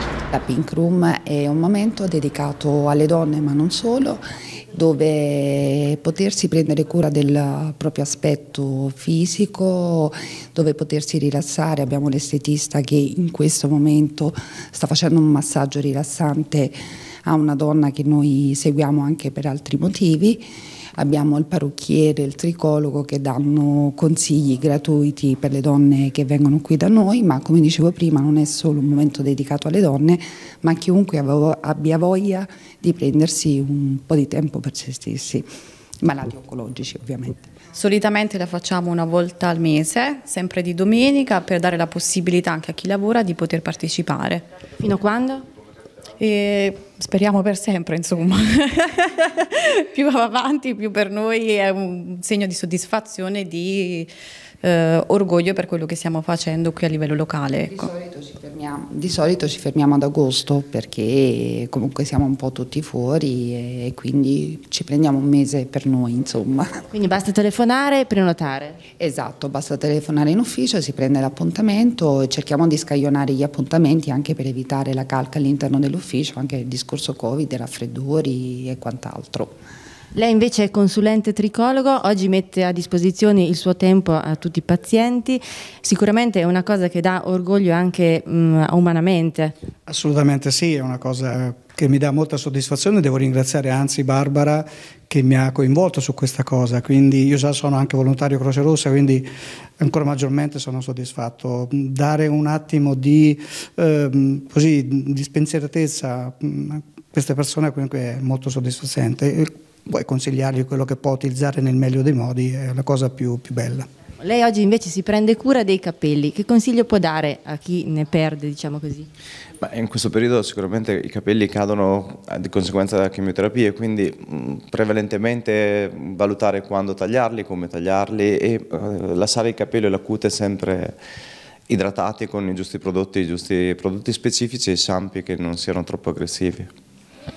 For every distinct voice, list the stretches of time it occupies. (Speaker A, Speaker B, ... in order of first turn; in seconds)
Speaker A: 0.3-35.5, 36.0-37.5, 57.6-66.7, 69.0-79.5
Speaker B: 37.8-44.4, 46.2-54.1, 54.6-57.8
Speaker C: 44.8-45.4, 66.9-68.8, 80.1-89.5, 114.2-119.1
Speaker D: 89.9-99.2, 99.8-113.9
Speaker E: 119.6-130.9, 131.7-136.7